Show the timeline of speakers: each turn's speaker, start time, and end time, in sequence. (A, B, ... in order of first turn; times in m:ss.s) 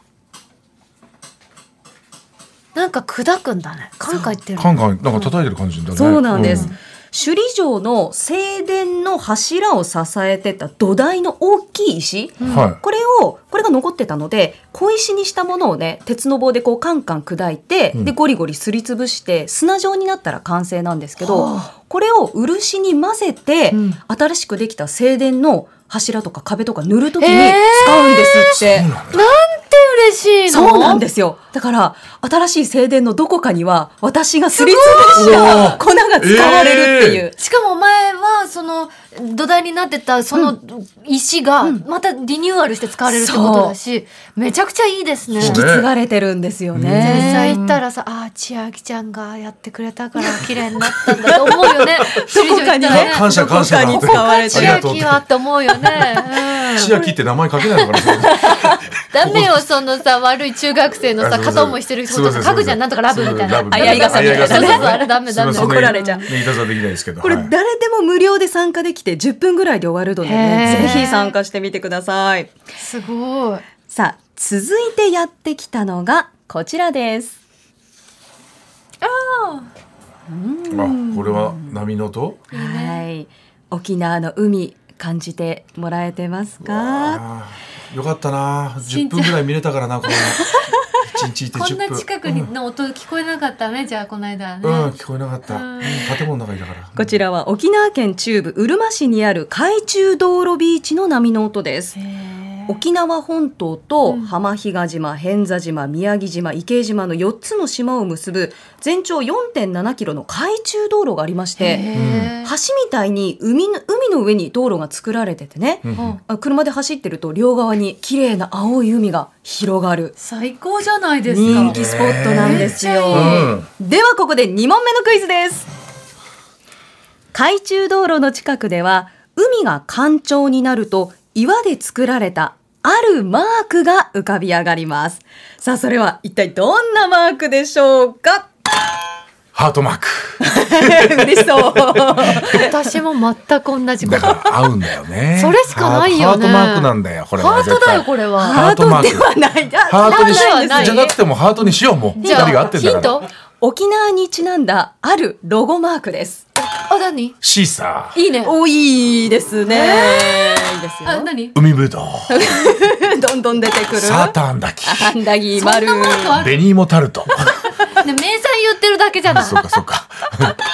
0:02.7-0:05.3 A
0:04.6-0:06.7 B
0:05.9-0:28.9 C
0:06.3-0:06.7 A
0:12.4-0:12.7 A
0:12.5-0:12.8 B
0:21.2-0:21.7 A
0:23.7-0:24.0 A
0:27.2-0:28.6 A
0:28.5-0:29.3 B
0:29.1-0:31.0 A
0:30.5-0:37.3 C
0:34.5-0:35.8 A
0:35.1-0:37.2 B
0:36.4-0:36.7 A
0:37.4-0:45.6 A
0:43.1-0:43.7 C
0:45.4-0:45.9 B
0:45.4-0:47.8 C
0:46.7-0:47.5 B
0:47.0-0:57.1 A
0:51.0-0:51.4 C
0:51.7-0:52.0 B
0:52.1-0:54.9 C
0:52.9-0:59.7 B
0:57.7-0:58.2 A
0:58.3-0:58.8 C
0:59.1-1:06.4 A
1:01.2-1:07.5 B
1:03.7-1:06.3 C
1:07.2-1:12.5 C
1:10.2-1:11.4 A
1:10.6-1:11.1 B
1:12.8-1:13.6 A
1:13.9-1:17.4 C
1:19.0-1:19.7 A
1:20.3-1:21.8 C
1:20.7-1:22.4 B
1:22.5-1:23.0 A
1:22.5-1:27.2 C
1:26.6-1:32.5 B
1:28.8-1:29.4 A
1:31.5-1:34.9 A
1:34.6-1:37.0 B
1:35.4-1:36.2 A
1:37.0-1:42.0 C
1:42.0-1:42.8 A
1:42.7-1:51.8 C
1:44.0-1:44.3 A
1:51.6-1:52.5 A
1:51.9-1:52.3 B
1:52.4-2:00.1 C
1:55.8-1:56.2 B
2:00.2-2:03.6 A
2:01.3-2:05.7 C
2:01.4-2:03.7 B
2:07.3-2:18.5 C
2:19.5-2:22.6 B
2:20.4-2:22.7 C
2:22.2-2:24.6 A
2:24.0-2:29.3 B
2:25.4-2:28.6 A
2:28.4-2:31.1 C
2:29.8-2:33.2 B
2:30.0-2:31.2 A
2:32.2-2:33.3 A
2:32.2-2:32.8 C
2:33.6-2:36.4 C
2:36.7-2:37.4 A
2:37.4-2:38.2 B
2:38.1-2:38.6 A
2:38.2-2:41.3 C
2:39.6-2:41.6 A
2:41.5-2:42.5 B
2:42.3-2:46.4 C
2:43.9-2:45.2 B
2:45.5-2:46.6 A
2:46.3-2:47.6 B
2:47.9-2:49.8 A
2:49.3-2:50.6 B